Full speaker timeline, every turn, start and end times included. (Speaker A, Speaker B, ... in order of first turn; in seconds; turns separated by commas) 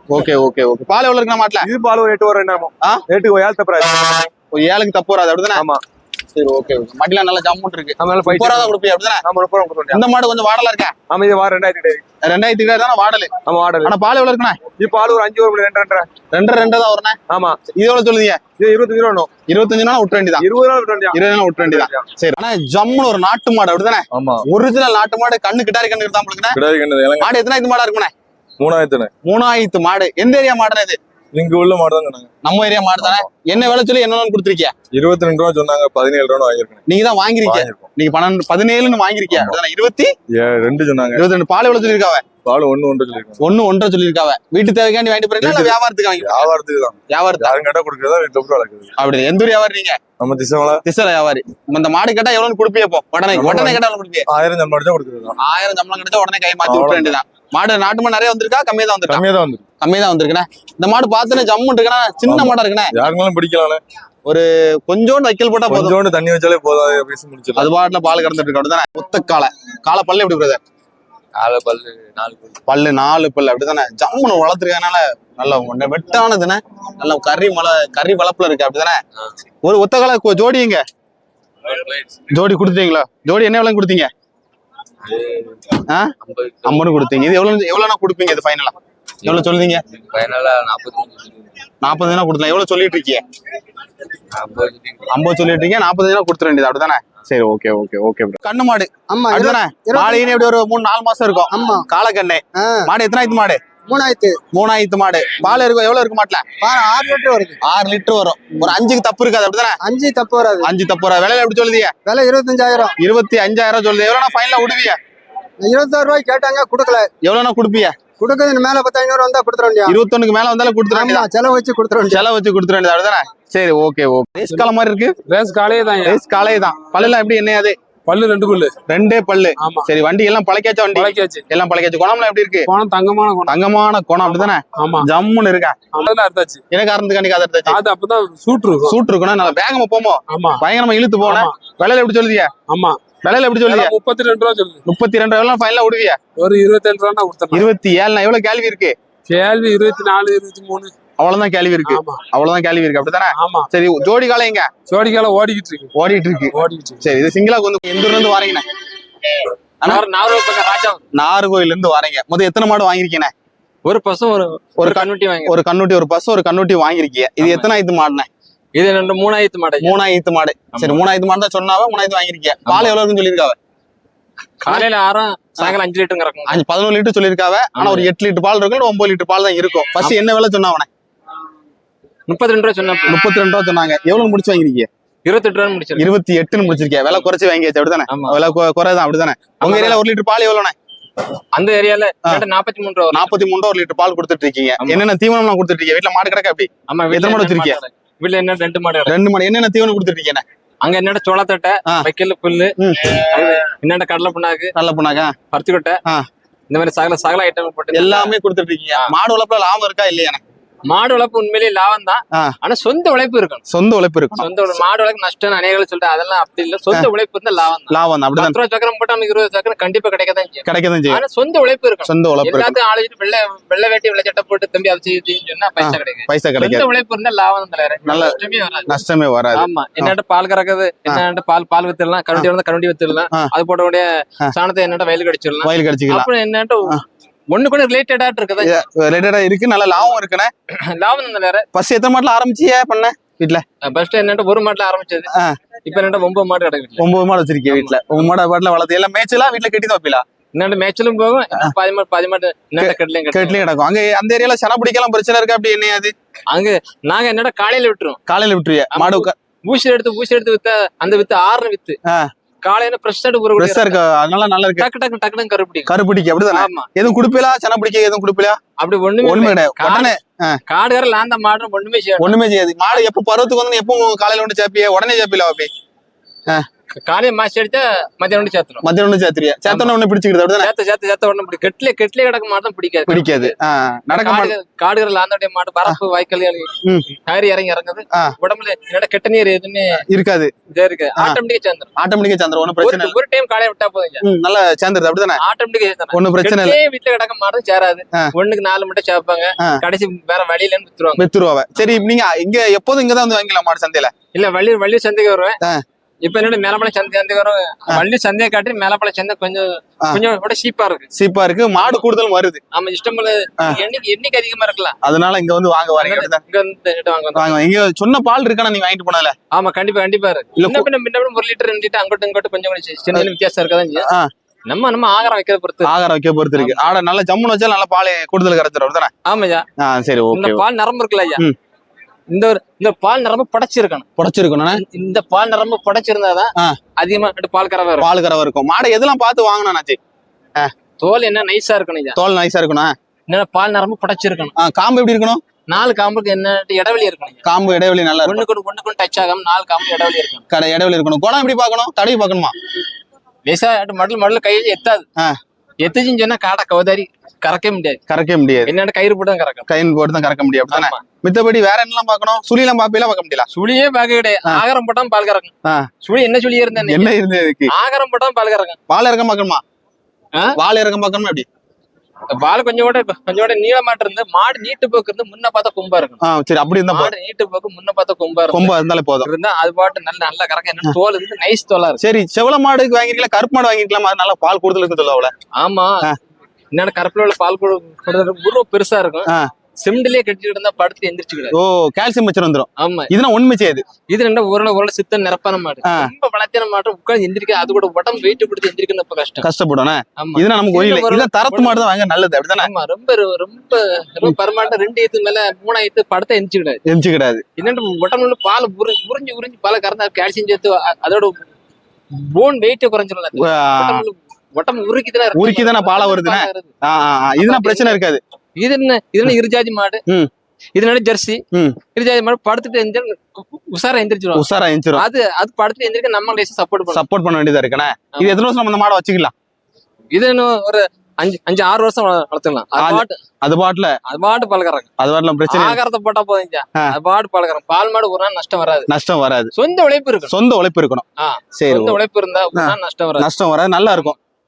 Speaker A: 0.1-1.7, Speaker B: 1.6-4.3, Speaker A: 4.5-5.6, Speaker B: 5.5-5.8, Speaker A: 6.3-9.2, Speaker B: 8.0-10.1, Speaker A: 9.9-10.9, Speaker B: 11.1-12.0, Speaker A: 12.2-14.6, Speaker B: 13.4-13.9, Speaker B: 14.7-16.2, Speaker A: 16.2-17.1, Speaker B: 17.3-17.6, Speaker A: 17.7-18.4, Speaker B: 18.6-19.4, Speaker A: 19.4-20.4, Speaker B: 20.4-22.1, Speaker A: 21.1-26.6, Speaker C: 24.1-24.4, Speaker C: 26.5-27.3, Speaker A: 27.2-28.1, Speaker C: 28.6-29.1, Speaker A: 29.2-31.0, Speaker C: 31.3-32.3, Speaker A: 32.4-34.7, Speaker C: 34.9-36.8, Speaker A: 36.9-40.1, Speaker C: 37.4-37.9, Speaker C: 39.3-39.6, Speaker C: 40.3-41.2, Speaker A: 41.1-42.2, Speaker C: 42.4-43.4, Speaker A: 43.4-46.5, Speaker C: 45.4-48.9, Speaker A: 47.1-47.5, Speaker A: 49.0-50.0, Speaker C: 50.2-50.8, Speaker A: 50.8-54.2, Speaker C: 53.3-55.4, Speaker A: 55.4-59.2, Speaker C: 56.6-57.2, Speaker C: 59.1-59.6, Speaker A: 59.8-62.9, Speaker C: 62.2-63.8, Speaker A: 64.2-66.0, Speaker C: 65.7-67.7, Speaker A: 67.5-70.6, Speaker A: 72.7-79.0, Speaker A: 79.6-80.8, Speaker A: 82.3-84.1, Speaker A: 85.9-86.1, Speaker A: 86.6-89.8, Speaker A: 91.8-93.2, Speaker A: 95.1-103.7, Speaker D: 99.1-100.0, Speaker D: 101.5-101.8, Speaker B: 103.9-104.3, Speaker D: 103.9-104.3, Speaker A: 104.4-106.6, Speaker B: 106.7-107.4, Speaker A: 107.6-109.8, Speaker D: 109.9-110.7, Speaker B: 110.1-110.5, Speaker A: 110.6-111.9, Speaker D: 112.1-112.9, Speaker B: 112.2-112.8, Speaker A: 113.0-115.0, Speaker D: 115.6-117.1, Speaker B: 115.7-117.0, Speaker A: 117.2-118.0, Speaker D: 118.2-119.9, Speaker A: 119.8-121.3, Speaker D: 121.2-122.1, Speaker A: 122.1-125.2, Speaker E: 125.3-126.2, Speaker A: 126.0-127.8, Speaker E: 128.1-128.7, Speaker A: 128.9-132.7, Speaker E: 129.6-129.9, Speaker E: 130.9-131.4, Speaker E: 132.7-133.5, Speaker A: 133.5-135.8, Speaker E: 134.8-135.1, Speaker E: 135.9-136.6, Speaker A: 136.7-137.8, Speaker E: 137.7-139.0, Speaker A: 138.8-142.5, Speaker E: 140.3-140.6, Speaker E: 141.2-141.5, Speaker E: 142.7-143.0, Speaker A: 143.2-143.9, Speaker E: 143.7-144.8, Speaker A: 144.8-146.2, Speaker E: 146.4-147.7, Speaker A: 147.5-148.9, Speaker E: 149.3-150.9, Speaker A: 151.2-154.7, Speaker E: 151.8-152.2, Speaker E: 153.3-153.7, Speaker E: 154.9-155.9, Speaker A: 155.9-158.6, Speaker E: 156.5-157.0, Speaker F: 159.8-161.0, Speaker A: 161.1-163.3, Speaker F: 163.8-165.6, Speaker A: 164.8-168.3, Speaker F: 167.4-167.7, Speaker F: 168.7-169.9, Speaker A: 169.8-173.6, Speaker F: 170.7-171.0, Speaker F: 172.7-172.9, Speaker F: 174.6-176.6, Speaker A: 176.5-180.9, Speaker F: 177.8-178.1, Speaker F: 182.3-183.2, Speaker A: 183.1-184.9, Speaker F: 185.2-186.1, Speaker A: 185.9-190.7, Speaker F: 188.1-188.4, Speaker F: 189.6-190.0, Speaker F: 191.5-193.3, Speaker A: 193.1-197.8, Speaker F: 196.9-199.1, Speaker A: 199.1-200.4, Speaker F: 200.8-204.7, Speaker A: 202.8-203.2, Speaker A: 204.8-205.3, Speaker F: 205.5-206.0, Speaker F: 206.7-208.3, Speaker A: 207.9-210.4, Speaker F: 210.8-213.6, Speaker A: 213.7-214.7, Speaker F: 214.4-229.0, Speaker A: 217.9-218.6, Speaker A: 220.6-221.2, Speaker A: 222.1-222.8, Speaker A: 225.8-226.8, Speaker A: 228.1-228.3, Speaker A: 228.9-230.1, Speaker F: 229.5-237.0, Speaker A: 235.6-236.3, Speaker F: 237.5-238.8, Speaker A: 238.6-240.5, Speaker F: 240.8-241.7, Speaker A: 241.7-243.6, Speaker F: 243.8-245.3, Speaker F: 245.8-247.0, Speaker A: 247.0-250.2, Speaker F: 247.7-248.0, Speaker F: 250.5-253.6, Speaker A: 252.8-256.1, Speaker F: 256.5-258.2, Speaker A: 258.3-259.3, Speaker F: 258.9-262.0, Speaker F: 262.6-264.0, Speaker A: 263.6-264.9, Speaker F: 264.8-265.9, Speaker A: 265.9-268.6, Speaker F: 266.5-266.9, Speaker F: 268.8-270.1, Speaker A: 269.2-270.6, Speaker F: 270.7-272.4, Speaker A: 272.2-275.7, Speaker F: 277.0-278.8, Speaker A: 278.8-280.7, Speaker F: 279.7-279.9, Speaker F: 280.6-283.5, Speaker A: 283.1-284.5, Speaker F: 284.1-290.0, Speaker A: 290.1-290.5, Speaker F: 290.7-291.9, Speaker A: 292.0-293.1, Speaker F: 292.8-294.2, Speaker A: 294.2-295.4, Speaker F: 295.4-301.2, Speaker A: 296.1-296.8, Speaker A: 301.2-304.1, Speaker F: 304.3-305.6, Speaker F: 306.2-311.1, Speaker A: 311.1-312.6, Speaker F: 312.7-314.9, Speaker A: 315.0-316.4, Speaker F: 316.0-317.5, Speaker A: 317.4-319.3, Speaker F: 319.5-324.1, Speaker A: 320.6-320.9, Speaker F: 324.7-325.9, Speaker A: 325.8-329.1, Speaker F: 326.5-326.8, Speaker F: 329.2-329.6, Speaker A: 329.8-330.6, Speaker F: 330.3-331.4, Speaker F: 332.3-334.1, Speaker A: 334.2-334.8, Speaker F: 334.8-338.1, Speaker A: 338.0-340.0, Speaker F: 341.0-342.2, Speaker A: 342.2-342.9, Speaker F: 343.3-344.5, Speaker A: 344.6-345.4, Speaker F: 345.7-347.4, Speaker A: 347.4-348.4, Speaker F: 348.2-350.4, Speaker A: 350.5-352.5, Speaker F: 353.4-355.0, Speaker F: 355.8-358.0, Speaker A: 358.1-358.7, Speaker F: 358.6-359.7, Speaker A: 359.7-363.4, Speaker F: 360.7-361.0, Speaker F: 363.5-365.5, Speaker F: 366.0-367.1, Speaker A: 366.8-367.7, Speaker F: 367.7-368.8, Speaker A: 368.9-369.6, Speaker A: 370.6-371.4, Speaker F: 372.3-376.2, Speaker A: 376.2-377.1, Speaker F: 376.9-378.7, Speaker A: 378.5-379.3, Speaker F: 379.2-382.0, Speaker A: 382.0-385.3, Speaker F: 385.6-386.1, Speaker F: 386.7-391.5, Speaker A: 391.5-393.8, Speaker F: 392.8-393.1, Speaker F: 394.1-399.4, Speaker A: 399.4-402.7, Speaker F: 400.2-401.8, Speaker F: 402.6-406.8, Speaker A: 406.9-407.4, Speaker F: 407.6-411.4, Speaker F: 412.1-416.7, Speaker A: 413.4-414.0, Speaker A: 415.4-418.2, Speaker F: 417.4-418.0, Speaker F: 418.6-420.0, Speaker F: 420.7-421.4, Speaker F: 421.9-424.4, Speaker A: 424.3-425.0, Speaker F: 424.9-427.0, Speaker A: 426.9-429.3, Speaker F: 428.1-428.4, Speaker F: 430.1-433.2, Speaker A: 432.8-433.9, Speaker F: 434.1-434.9, Speaker A: 435.0-435.8, Speaker F: 435.5-438.9, Speaker A: 438.9-439.5, Speaker F: 439.5-440.3, Speaker A: 440.3-441.0, Speaker F: 441.2-443.3, Speaker A: 441.6-442.0, Speaker A: 442.6-444.2